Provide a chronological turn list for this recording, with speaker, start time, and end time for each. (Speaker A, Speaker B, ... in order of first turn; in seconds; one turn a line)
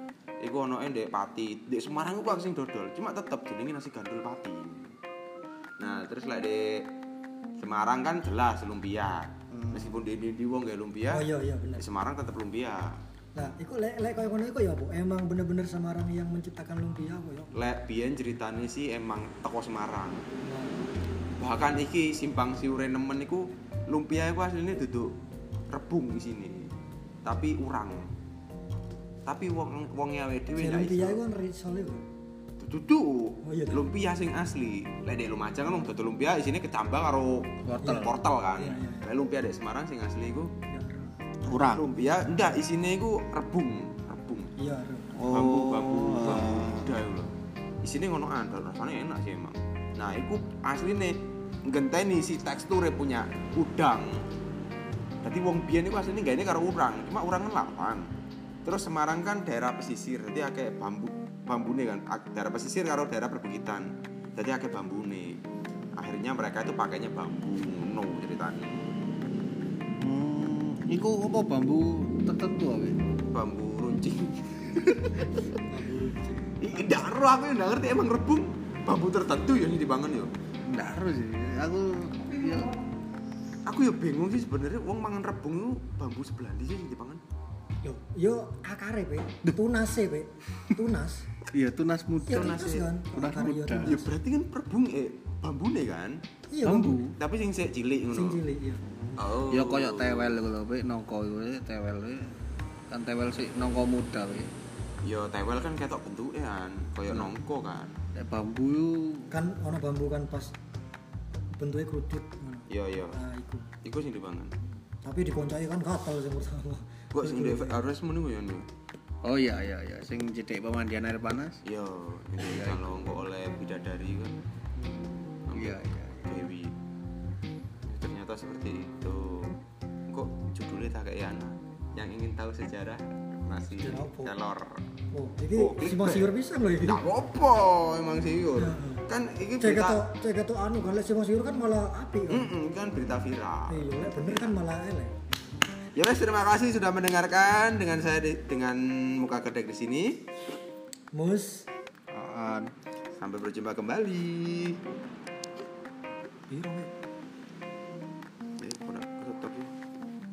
Speaker A: 0.4-5.0
Speaker A: 5.8-6.9
Speaker A: 7.6-11.2
Speaker B: 9.5-10.0
Speaker C: 11.1-11.9
Speaker A: 11.8-13.0
Speaker C: 13.4-17.5
Speaker A: 17.5-20.2
Speaker C: 20.4-20.9
Speaker A: 21.4-25.1
Speaker A: 25.7-26.7
Speaker A: 27.2-28.1
Speaker A: 29.3-31.2
Speaker C: 30.6-32.0
Speaker A: 32.6-40.5
Speaker C: 33.4-33.8
Speaker B: 37.7-38.2
Speaker C: 37.8-39.1
Speaker C: 40.7-41.2
Speaker B: 41.4-41.9
Speaker A: 41.5-44.5
Speaker C: 44.6-45.2
Speaker B: 45.1-47.0
Speaker A: 45.2-54.2
Speaker A: 55.2-58.1
Speaker A: 58.6-65.4
Speaker A: 66.0-68.8
Speaker B: 70.0-73.0
Speaker A: 73.3-75.3
Speaker C: 75.2-77.1
Speaker A: 76.6-80.3
Speaker B: 80.7-82.8
Speaker A: 83.7-87.2
Speaker C: 87.8-91.3
Speaker B: 91.5-94.0
Speaker C: 92.3-94.1
Speaker A: 92.3-92.9
Speaker A: 93.8-96.2
Speaker C: 96.5-97.0
Speaker B: 96.6-97.2
Speaker A: 97.2-98.4
Speaker C: 98.1-98.8
Speaker A: 99.2-100.4
Speaker B: 99.2-102.4
Speaker B: 102.9-104.5
Speaker A: 105.0-108.0
Speaker B: 108.1-109.3
Speaker C: 109.3-110.5
Speaker C: 111.5-113.7
Speaker A: 112.7-113.2
Speaker A: 113.8-114.5
Speaker C: 115.0-117.8
Speaker A: 117.1-118.7
Speaker B: 119.2-121.6
Speaker A: 121.7-124.3
Speaker B: 122.4-123.0
Speaker B: 124.8-126.3
Speaker A: 125.5-126.8
Speaker A: 127.8-129.6
Speaker A: 130.1-134.8
Speaker C: 133.8-134.3
Speaker C: 135.1-137.0
Speaker A: 135.6-136.3
Speaker A: 136.8-140.0
Speaker C: 138.6-139.1
Speaker C: 139.6-142.5
Speaker A: 142.3-144.6
Speaker C: 143.7-145.1
Speaker A: 146.0-150.3
Speaker C: 151.2-151.7
Speaker B: 152.1-152.7
Speaker A: 153.2-154.8
Speaker C: 156.5-156.9
Speaker A: 158.6-159.7